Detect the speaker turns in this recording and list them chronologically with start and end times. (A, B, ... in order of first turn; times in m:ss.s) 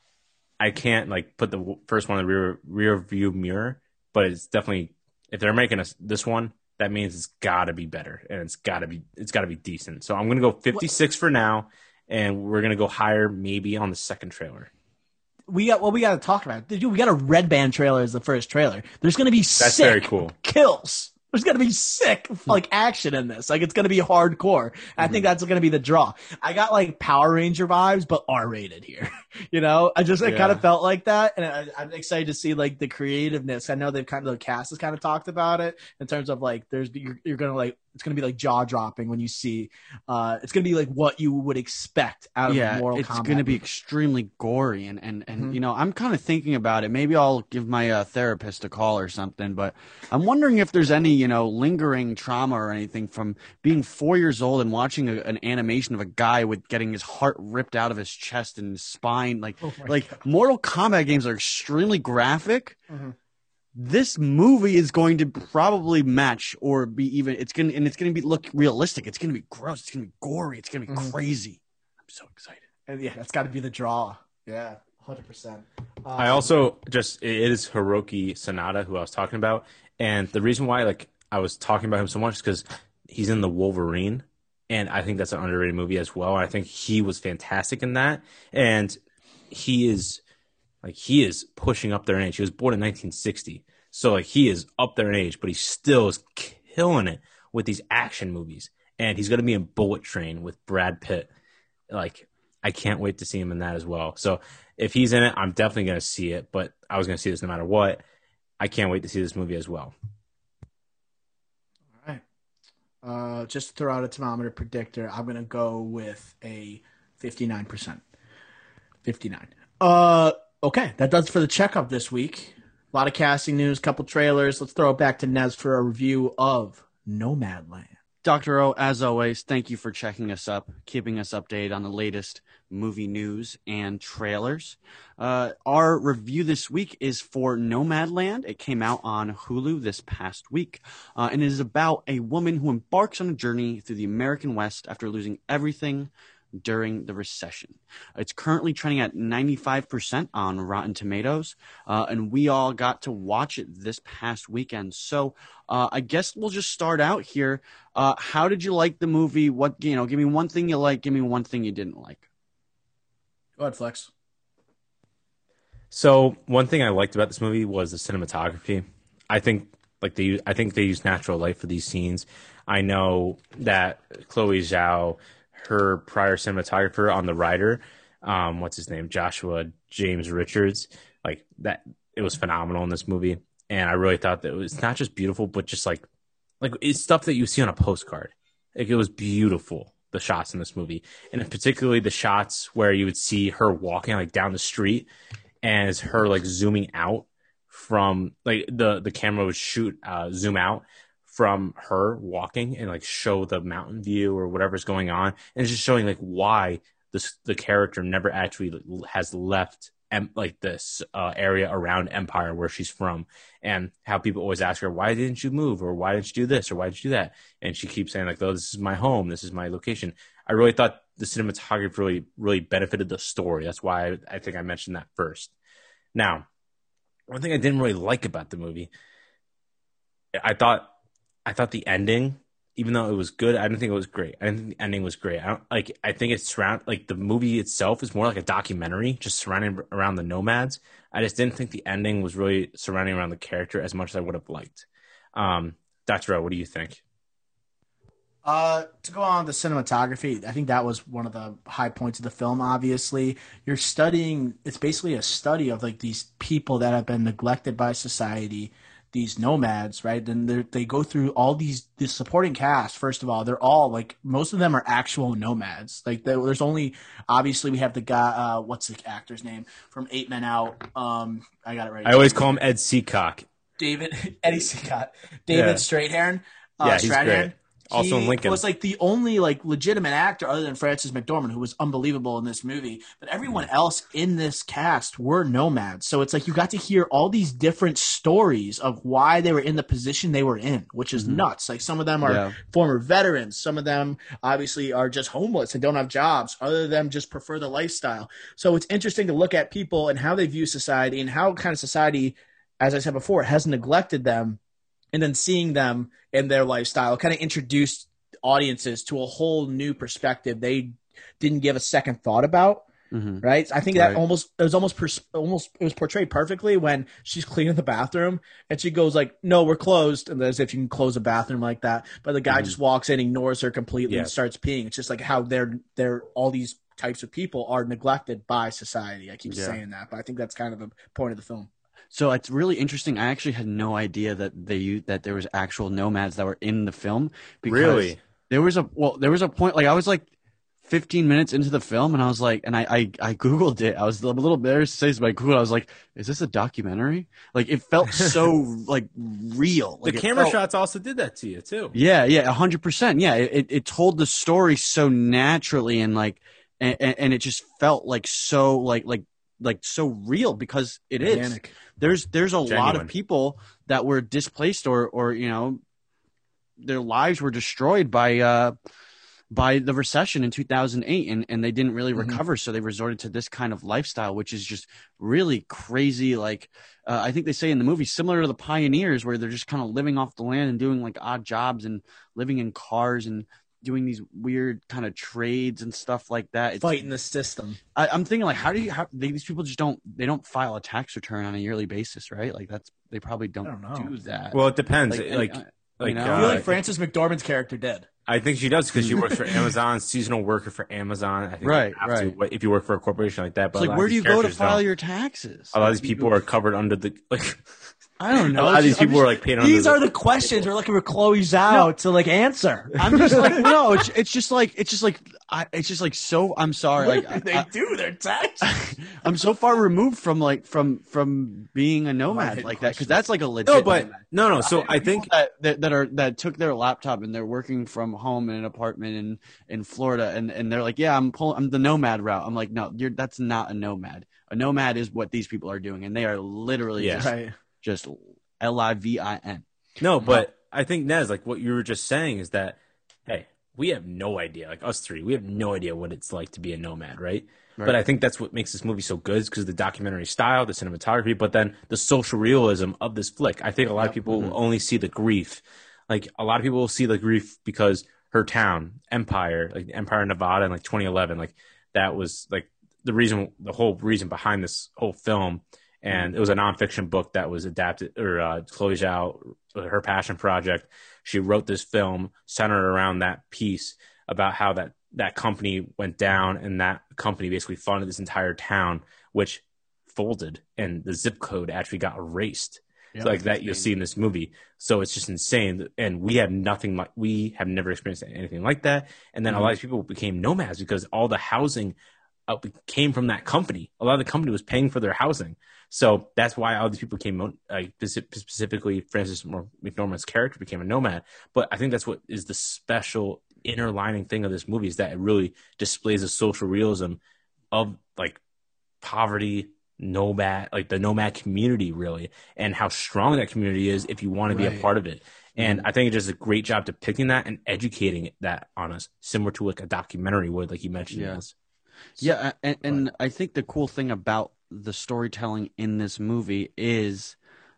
0:00.6-0:14.7 A
0:15.5-0:43.6 B
0:19.6-0:20.3 A
0:30.2-0:30.6 C
0:42.5-1:02.8 C
0:59.6-1:00.0 B
1:02.9-1:03.1 B
1:03.8-1:12.6 C
1:10.9-1:11.1 B
1:12.9-1:16.5 B
1:16.2-1:29.0 A
1:29.5-1:30.2 A
1:30.8-1:41.3 A
1:41.9-1:48.0 A
1:48.6-1:49.9 A
1:53.0-1:58.0 B
1:59.0-2:07.9 B
2:08.2-2:42.2 C
2:43.6-2:44.1 B
2:45.9-3:06.0 A
3:06.6-3:15.1 A
3:15.6-3:45.5 A
3:46.1-3:46.5 A
3:47.3-3:48.9 A
3:50.4-3:50.9 A
3:51.4-4:07.0 A
4:08.4-4:32.5 B
4:32.0-4:33.4 A
4:33.8-5:04.6 B
4:35.5-4:35.8 A
4:36.8-4:38.6 A
4:51.2-4:51.4 C
4:52.2-4:52.5 C
5:05.1-5:12.8 B
5:13.1-5:13.4 C
5:13.4-5:31.7 B
5:22.5-5:22.7 C
5:24.1-5:24.3 A
5:29.5-5:29.8 C
5:32.1-5:40.3 C
5:37.6-5:38.2 A
5:40.8-5:50.4 C
5:50.0-5:52.0 A
5:51.9-6:05.8 C
6:01.2-6:01.8 B
6:02.6-6:03.1 A
6:06.8-6:08.7 C
6:09.5-6:27.1 C
6:26.8-6:27.8 B
6:27.9-6:36.8 C
6:33.6-6:34.1 B
6:34.5-6:36.6 A
6:36.3-6:38.1 B
6:38.3-6:44.8 A
6:39.0-6:39.3 C
6:41.6-6:42.3 C
6:43.8-6:46.3 C
6:45.7-6:47.7 A
6:48.2-6:53.7 B
6:48.4-6:49.0 C
6:48.5-6:50.0 A
6:53.0-6:57.7 C
6:57.0-6:59.1 B
6:58.7-7:19.6 C
7:02.3-7:03.2 B
7:03.6-7:05.3 A
7:17.0-7:17.3 A
7:17.1-7:17.5 B
7:20.0-8:27.2 A
7:34.0-7:34.6 C
8:03.1-8:03.9 C
8:27.7-8:28.4 A
8:29.0-8:41.5 A
8:34.5-8:34.8 B
8:35.6-8:35.8 C
8:41.1-8:41.4 C
8:42.2-8:47.4 C